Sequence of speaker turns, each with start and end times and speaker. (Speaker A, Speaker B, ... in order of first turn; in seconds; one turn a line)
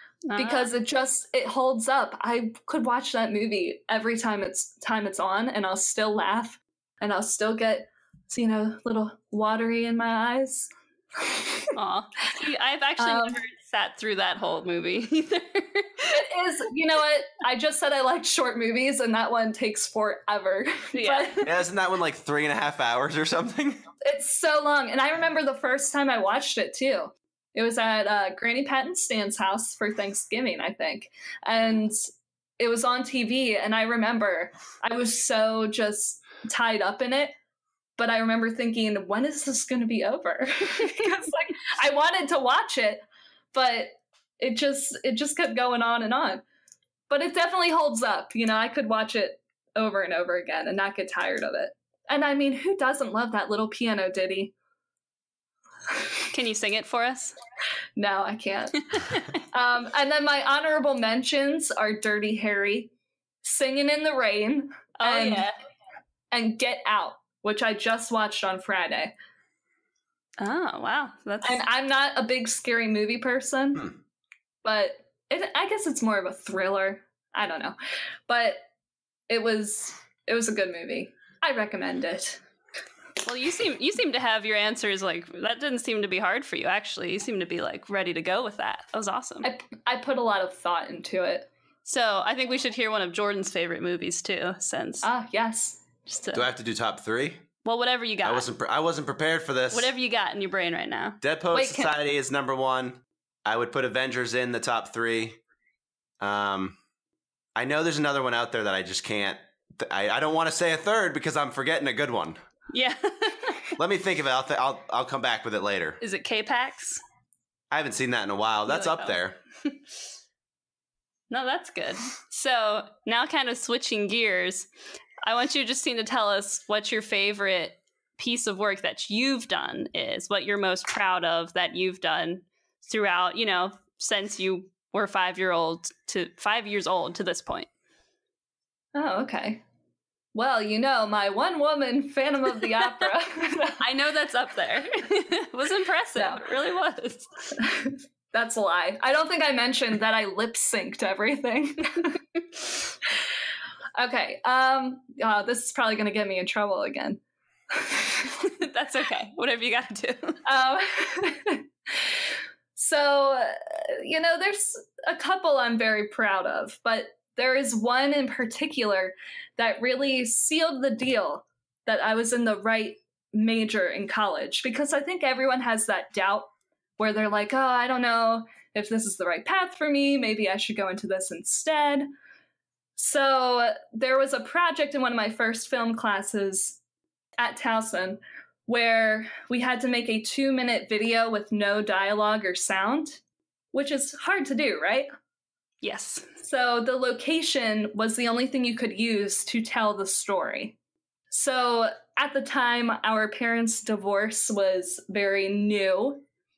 Speaker A: 0.3-0.7
Speaker B: 0.4-11.7
Speaker A: 11.8-16.1
Speaker B: 13.0-13.4
Speaker B: 16.1-21.5
Speaker A: 20.9-21.4
Speaker C: 21.4-23.8
Speaker B: 24.1-32.0
Speaker B: 32.6-37.3
Speaker B: 38.0-46.4
Speaker B: 47.1-54.5
Speaker A: 56.3-57.4
Speaker B: 58.0-58.8
Speaker A: 59.0-59.2
Speaker B: 59.5-62.9
Speaker B: 63.4-65.5
Speaker A: 65.0-65.5
Speaker B: 66.3-69.1
Speaker A: 70.4-71.6
Speaker B: 71.4-73.9
Speaker B: 74.6-77.8
Speaker B: 78.3-78.6
Speaker B: 79.3-82.4
Speaker A: 83.2-89.5
Speaker B: 89.4-91.5
Speaker A: 91.9-95.1
Speaker B: 95.0-95.8
Speaker A: 96.1-96.5
Speaker C: 96.3-97.5
Speaker A: 97.6-98.5
Speaker C: 98.2-99.9
Speaker A: 99.7-101.2
Speaker C: 101.2-105.4
Speaker B: 101.5-101.9
Speaker C: 106.2-106.8
Speaker C: 107.6-112.4
Speaker A: 112.7-113.8
Speaker C: 113.8-116.0
Speaker A: 116.0-117.0
Speaker C: 117.7-119.4
Speaker A: 118.7-119.8
Speaker A: 121.3-124.7
Speaker A: 125.2-137.7
Speaker B: 138.9-139.6
Speaker B: 140.3-143.8
Speaker A: 143.8-147.6
Speaker B: 147.6-152.2
Speaker B: 154.0-157.2
Speaker B: 157.7-158.3
Speaker A: 158.4-160.4
Speaker B: 160.5-162.2
Speaker B: 162.8-182.1
Speaker B: 183.0-186.8
Speaker B: 187.4-193.2
Speaker B: 193.7-195.1
Speaker A: 195.8-196.3
Speaker B: 196.4-200.8
Speaker B: 201.3-206.2